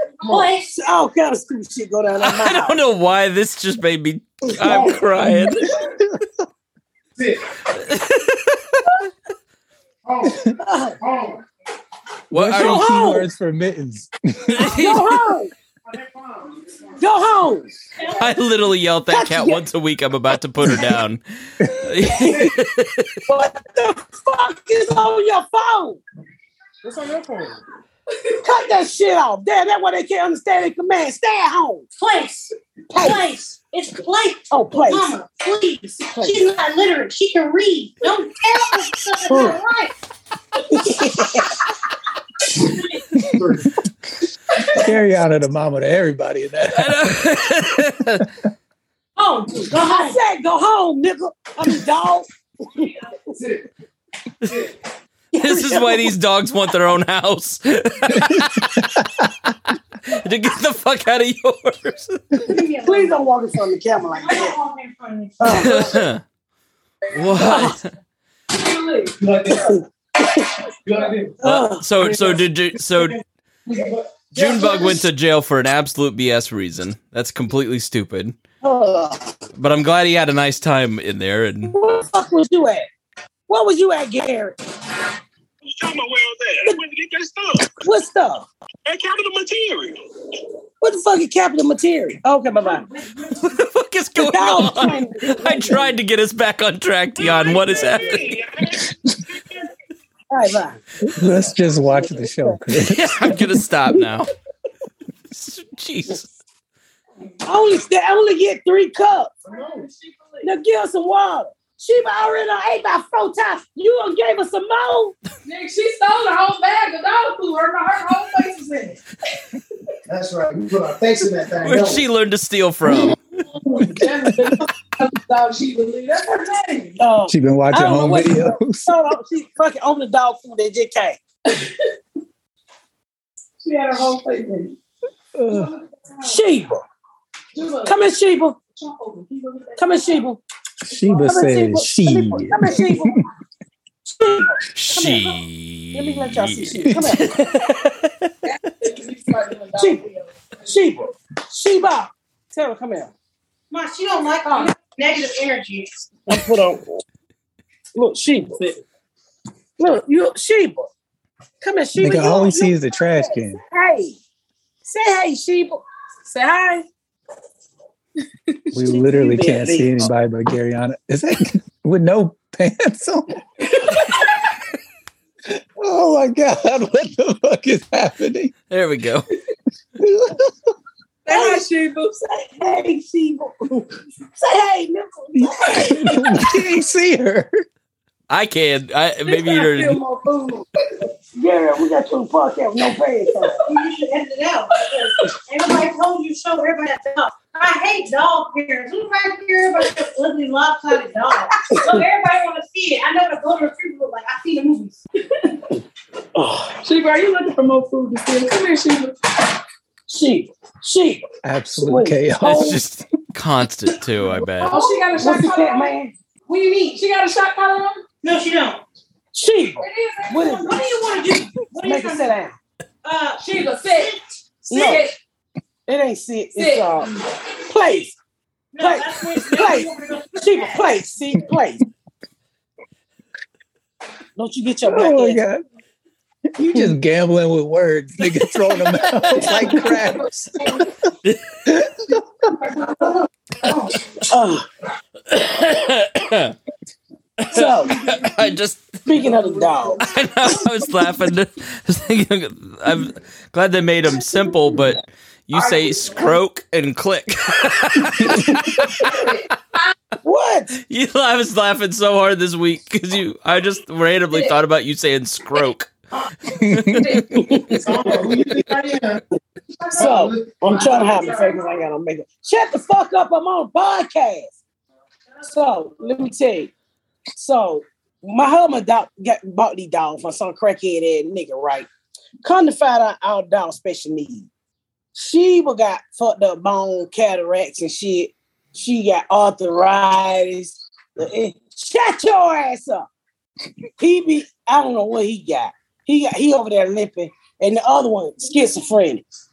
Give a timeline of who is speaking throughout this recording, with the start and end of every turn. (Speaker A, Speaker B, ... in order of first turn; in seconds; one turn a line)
Speaker A: 0.3-0.7
Speaker B: 0.5-2.8
Speaker C: 2.2-5.7
Speaker D: 4.6-5.0
Speaker E: 5.2-6.2
Speaker D: 7.2-7.4
Speaker C: 7.7-8.9
Speaker D: 10.0-11.5
Speaker B: 10.6-11.0
Speaker C: 12.3-13.0
Speaker E: 12.3-14.8
Speaker B: 12.5-13.3
Speaker C: 14.5-15.2
Speaker B: 14.7-15.5
Speaker D: 15.8-17.0
Speaker B: 17.0-17.7
Speaker C: 18.2-23.2
Speaker B: 19.1-19.6
Speaker B: 22.0-22.6
Speaker B: 23.3-26.0
Speaker D: 26.8-27.6
Speaker B: 28.4-31.9
Speaker A: 32.0-39.9
Speaker B: 32.9-33.2
Speaker B: 34.5-35.1
Speaker B: 36.1-36.5
Speaker B: 39.3-39.6
Speaker B: 40.7-41.6
Speaker D: 43.2-43.8
Speaker E: 44.8-47.4
Speaker C: 46.8-48.3
Speaker A: 49.2-50.2
Speaker B: 49.7-52.9
Speaker D: 53.3-53.7
Speaker D: 54.5-54.7
Speaker B: 55.3-56.1
Speaker C: 55.4-58.9
Speaker C: 60.0-62.4
Speaker A: 62.4-63.2
Speaker B: 62.8-64.6
Speaker A: 64.2-65.7
Speaker B: 65.4-65.9
Speaker C: 65.5-66.2
Speaker C: 67.1-67.9
Speaker B: 67.4-67.8
Speaker F: 68.5-69.5
Speaker D: 69.2-69.8
Speaker D: 70.8-71.4
Speaker B: 71.4-71.9
Speaker C: 71.4-73.2
Speaker D: 72.0-72.4
Speaker D: 73.7-75.0
Speaker C: 74.3-78.4
Speaker B: 78.6-79.3
Speaker C: 79.6-81.8
Speaker B: 81.7-82.9
Speaker B: 83.5-84.6
Speaker G: 85.7-87.6
Speaker B: 87.6-88.5
Speaker G: 88.9-90.0
Speaker B: 90.8-92.9
Speaker C: 93.4-98.3
Speaker B: 94.2-95.9
Speaker B: 100.3-100.8
Speaker E: 101.0-103.4
Speaker B: 101.9-102.6
Speaker C: 102.8-104.3
Speaker C: 105.3-106.3
Speaker B: 107.4-109.4
Speaker D: 109.5-109.9
Speaker F: 109.5-110.5
Speaker B: 110.4-115.2
Speaker F: 115.4-119.0
Speaker D: 120.1-122.0
Speaker C: 121.6-123.2
Speaker F: 123.5-127.0
Speaker B: 127.0-131.2
Speaker E: 127.3-129.0
Speaker F: 131.5-131.7
Speaker F: 133.6-134.8
Speaker E: 135.4-135.7
Speaker F: 135.5-136.4
Speaker B: 136.2-136.8
Speaker F: 137.5-138.0
Speaker B: 137.8-138.6
Speaker F: 138.8-140.2
Speaker B: 139.8-140.4
Speaker E: 140.9-143.3
Speaker B: 141.1-143.2
Speaker B: 144.1-145.3
Speaker C: 144.8-148.3
Speaker B: 145.9-147.5
Speaker E: 146.9-147.2
Speaker F: 148.4-150.3
Speaker B: 149.8-150.1
Speaker B: 150.7-153.1
Speaker A: 153.7-156.1
Speaker B: 156.3-157.0
Speaker B: 157.9-158.6
Speaker B: 159.8-160.9
Speaker B: 161.6-164.2
Speaker E: 162.0-163.6
Speaker B: 164.8-165.8
Speaker F: 166.3-166.8
Speaker E: 168.7-173.4
Speaker B: 168.8-170.1
Speaker E: 175.8-178.5
Speaker C: 178.7-179.3
Speaker E: 180.0-180.5
Speaker B: 181.3-181.7
Speaker F: 181.3-182.2
Speaker B: 182.3-186.5
Speaker E: 185.3-187.6
Speaker C: 188.3-190.0
Speaker F: 189.4-190.0
Speaker B: 189.8-190.6
Speaker B: 191.3-193.6
Speaker A: 193.6-205.0
Speaker B: 201.7-202.0
Speaker B: 206.3-206.7
Speaker F: 206.8-209.2
Speaker B: 210.1-211.2
Speaker E: 211.4-212.8
Speaker B: 211.8-212.8
Speaker C: 212.4-214.8
Speaker F: 214.6-215.9
Speaker B: 215.2-216.1
Speaker F: 216.5-218.0
Speaker A: 218.2-218.8
Speaker B: 219.3-220.8
Speaker F: 219.8-220.6
Speaker A: 220.4-222.3
Speaker B: 221.8-222.6
Speaker A: 223.0-223.4
Speaker F: 223.4-224.2
Speaker A: 223.9-224.2
Speaker F: 224.7-225.2
Speaker B: 224.7-225.0
Speaker B: 225.9-228.2
Speaker F: 226.6-227.2
Speaker A: 228.7-230.9
Speaker B: 228.8-231.8
Speaker B: 234.4-235.4
Speaker E: 234.8-235.6
Speaker E: 236.6-240.7
Speaker C: 241.2-241.6
Speaker E: 241.7-242.1
Speaker B: 244.3-244.7
Speaker C: 245.3-246.6
Speaker C: 247.4-249.1
Speaker B: 247.5-248.0
Speaker B: 249.1-250.0
Speaker C: 250.0-259.4
Speaker B: 260.2-260.7
Speaker C: 260.8-265.9
Speaker C: 266.5-267.2
Speaker E: 266.6-267.1
Speaker B: 267.3-268.2
Speaker D: 267.8-269.2
Speaker B: 269.9-274.5
Speaker D: 269.9-271.3
Speaker B: 275.4-276.7
Speaker B: 277.4-281.9
Speaker B: 282.4-284.5
Speaker B: 285.1-293.1
Speaker B: 294.0-299.3